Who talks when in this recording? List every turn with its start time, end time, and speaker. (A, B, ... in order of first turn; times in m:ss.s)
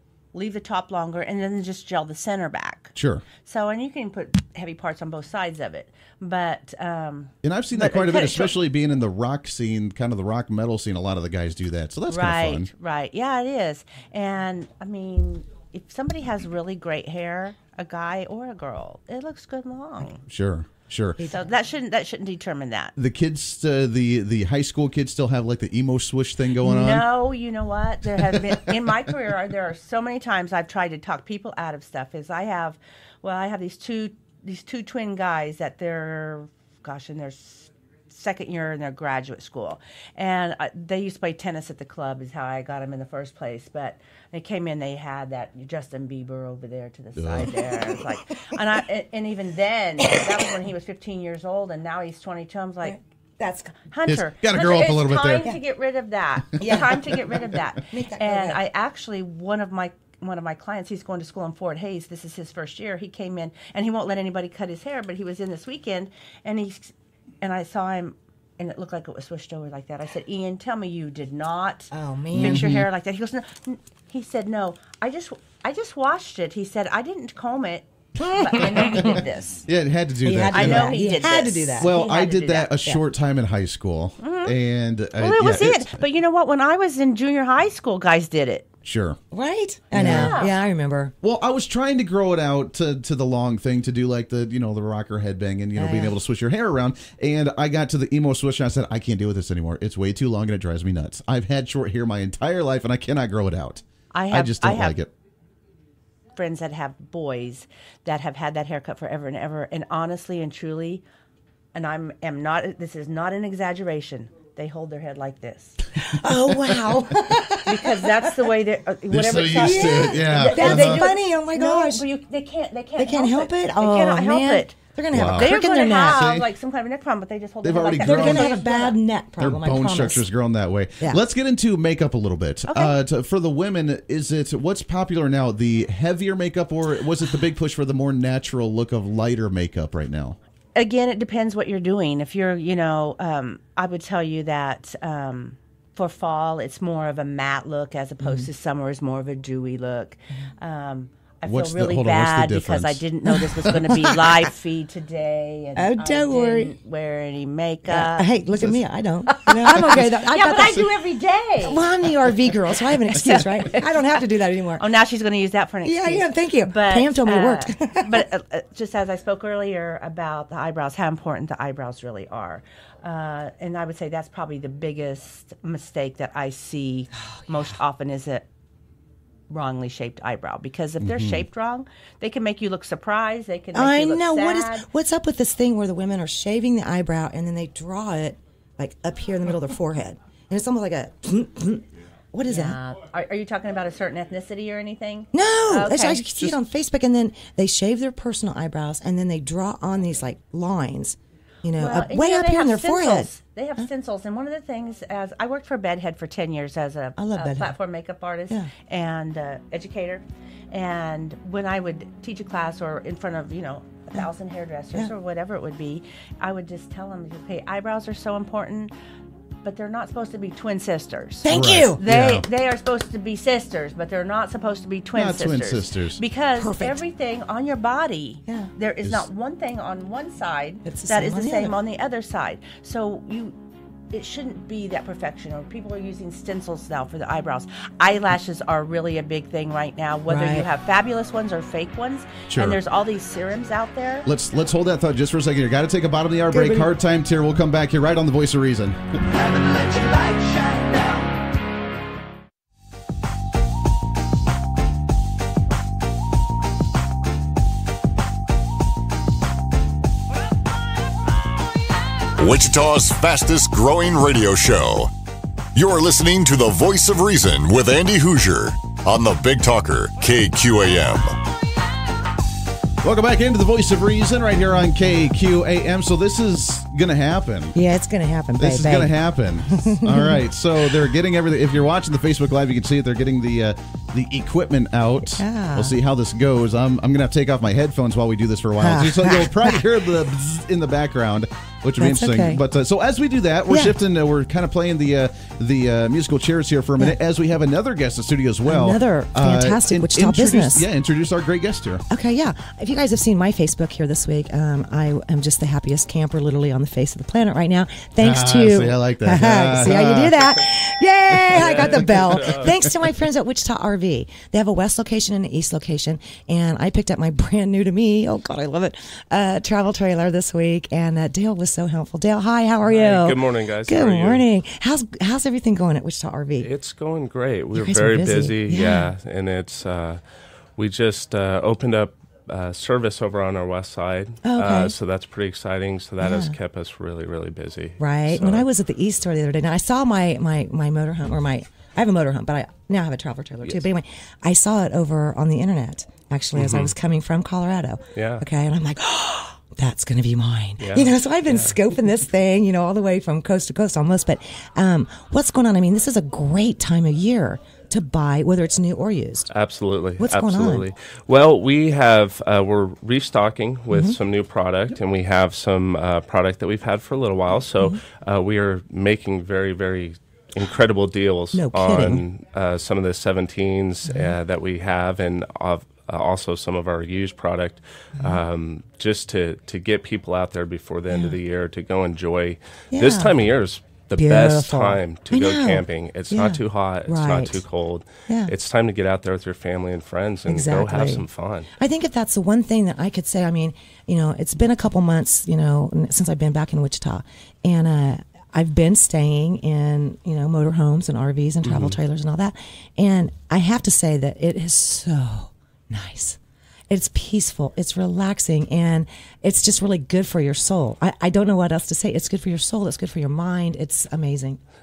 0:00.3-0:08.6 A
0:03.0-0:03.2 B
0:07.4-0:12.7 B
0:12.1-0:20.2 A
0:20.3-0:21.2 B
0:21.2-0:21.5 C
0:21.2-0:22.9 A
0:23.0-0:27.1 B
0:26.6-0:53.0 A
0:47.2-0:47.6 B
0:52.8-0:53.9 C
0:53.9-1:19.6 A
0:54.1-0:55.5 B
0:56.6-0:58.6 C
1:11.9-1:12.8 C
1:12.3-1:12.9 B
1:18.2-1:21.0 B
1:18.5-1:19.2 C
1:20.2-1:23.0 C
1:20.5-1:22.7 A
1:21.8-1:26.0 B
1:24.2-1:24.6 A
1:25.2-1:28.7 A
1:28.8-1:29.2 B
1:29.3-1:31.1 C
1:29.9-1:30.5 B
1:30.0-1:30.5 A
1:31.2-1:45.1 B
1:35.8-1:36.2 C
1:44.1-1:45.0 A
1:46.4-1:51.0 A
1:51.7-1:55.8 A
1:56.1-1:58.5 C
1:56.1-1:57.0 B
1:57.7-2:09.0 A
1:59.1-2:01.0 B
1:59.5-2:02.0 C
2:03.0-2:06.4 C
2:05.1-2:05.5 B
2:07.6-2:08.6 B
2:08.0-2:10.3 C
2:09.4-2:20.4 B
2:12.7-2:13.0 A
2:20.8-2:38.3 A
2:28.2-2:28.5 C
2:31.4-2:33.0 B
2:35.8-2:36.8 C
2:37.9-2:44.9 C
2:39.6-2:40.9 B
2:40.3-2:41.8 A
2:43.1-2:43.8 A
2:44.8-2:58.5 A
2:45.8-2:48.2 C
2:59.5-3:04.9 A
3:01.0-3:01.5 B
3:03.7-3:12.8 C
3:12.5-3:16.5 A
3:15.3-3:23.9 C
3:21.8-3:38.9 A
3:27.2-3:27.8 C
3:39.6-3:53.6 A
3:41.4-3:42.0 C
3:41.5-3:42.5 B
3:45.1-3:46.2 B
3:46.6-3:47.0 C
3:50.8-3:51.8 C
3:54.1-4:04.3 A
4:00.3-4:00.7 C
4:02.5-4:02.8 B
4:04.2-4:09.6 B
4:06.5-4:06.9 C
4:09.4-4:11.0 C
4:22.4-4:25.1 D
4:25.8-4:31.4 D
4:33.0-4:37.8 B
4:37.8-4:39.1 C
4:38.6-5:02.0 B
4:39.7-4:40.4 C
4:45.2-4:46.0 C
4:48.8-4:49.8 C
4:52.0-4:52.6 C
4:53.7-4:54.0 C
4:58.7-5:00.9 C
5:02.1-5:26.7 C
5:08.2-5:10.5 B
5:11.6-5:12.6 E
5:11.6-5:12.8 B
5:22.8-5:24.4 E
5:26.6-5:30.2 E
5:27.7-5:29.1 C
5:30.8-5:38.7 E
5:34.4-5:35.0 C
5:36.2-5:36.6 C
5:38.0-5:59.5 C
5:46.6-5:46.9 E
5:48.2-5:48.4 E
5:50.8-5:51.8 E
5:59.5-6:31.7 E
6:00.2-6:00.8 C
6:03.9-6:04.2 C
6:11.5-6:12.2 C
6:14.0-6:14.4 C
6:21.1-6:21.4 C
6:22.9-6:23.3 C
6:24.2-6:27.6 C
6:28.3-6:28.5 C
6:30.4-6:31.2 C
6:31.8-6:46.4 C
6:41.6-6:42.0 E
6:46.9-6:54.6 C